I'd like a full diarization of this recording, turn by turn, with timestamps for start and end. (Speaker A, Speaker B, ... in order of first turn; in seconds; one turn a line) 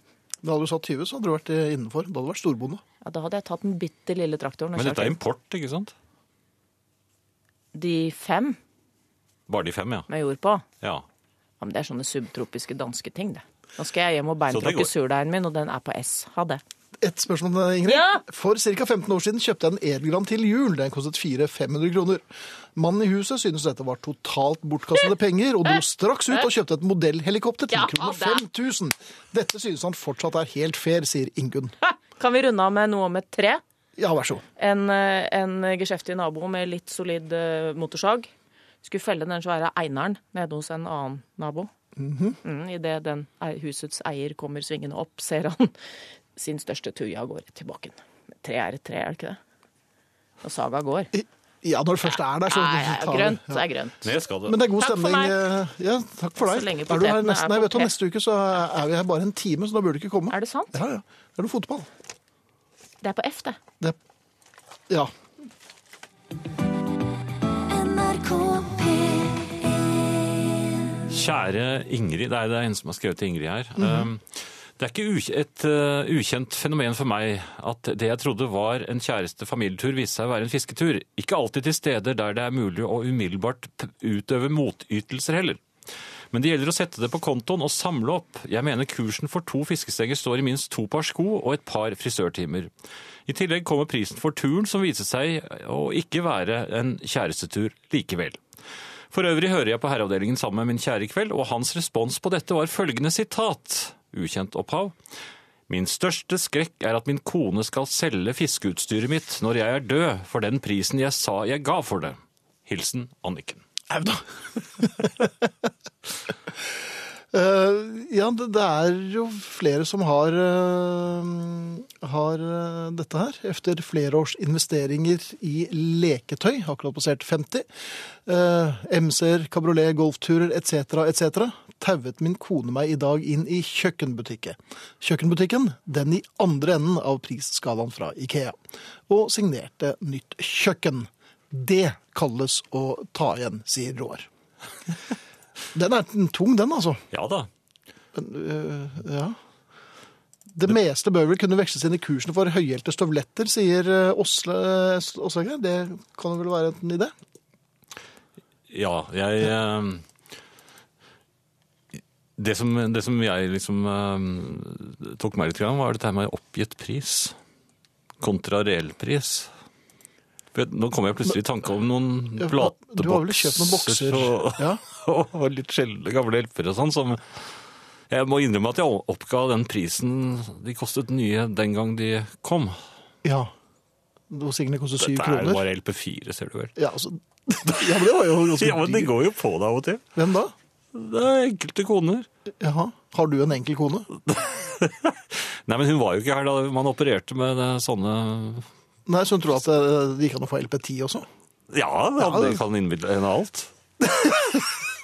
Speaker A: 0.4-2.8
Speaker B: 3.0-5.2
Speaker C: 4.8-5.9
Speaker B: 7.7-8.6
Speaker C: 9.5-10.1
Speaker B: 10.1-10.6
Speaker B: 11.6-16.6
Speaker C: 14.5-14.9
Speaker A: 17.0-31.8
Speaker B: 17.9-18.2
Speaker B: 27.7-28.4
Speaker B: 31.9-33.6
Speaker A: 34.0-34.4
Speaker B: 34.6-38.3
Speaker B: 38.8-41.7
Speaker A: 42.0-42.4
Speaker B: 42.4-45.7
Speaker B: 46.3-49.4
Speaker B: 50.4-51.1
Speaker A: 51.1-53.6
Speaker B: 52.5-54.1
Speaker C: 54.0-54.6
Speaker A: 54.5-61.9
Speaker B: 54.8-55.4
Speaker B: 56.4-57.9
Speaker B: 60.3-60.7
Speaker B: 63.0-63.6
Speaker B: 67.8-69.2
Speaker C: 71.1-85.6
Speaker A: 73.8-74.1
Speaker C: 86.3-92.7
Speaker C: 93.3-98.4
Speaker C: 99.1-104.9
Speaker C: 105.7-113.6
Speaker A: 113.9-115.3
Speaker A: 117.3-127.7
Speaker A: 128.2-138.6
Speaker A: 139.1-144.3
Speaker A: 145.7-147.0
Speaker C: 147.1-147.5
Speaker A: 148.1-149.4
Speaker A: 150.5-157.1
Speaker C: 158.7-160.0
Speaker C: 162.4-167.3
Speaker C: 168.2-169.5
Speaker C: 170.5-177.4
Speaker A: 172.4-174.8
Speaker C: 178.1-182.8
Speaker A: 183.2-183.5
Speaker A: 184.3-185.6
Speaker C: 185.0-186.8
Speaker A: 186.8-189.1
Speaker C: 187.7-190.0
Speaker A: 190.2-190.5
Speaker C: 190.9-192.3
Speaker A: 192.6-194.1
Speaker C: 194.2-198.7
Speaker A: 199.1-201.3
Speaker C: 201.7-204.7
Speaker A: 202.2-202.6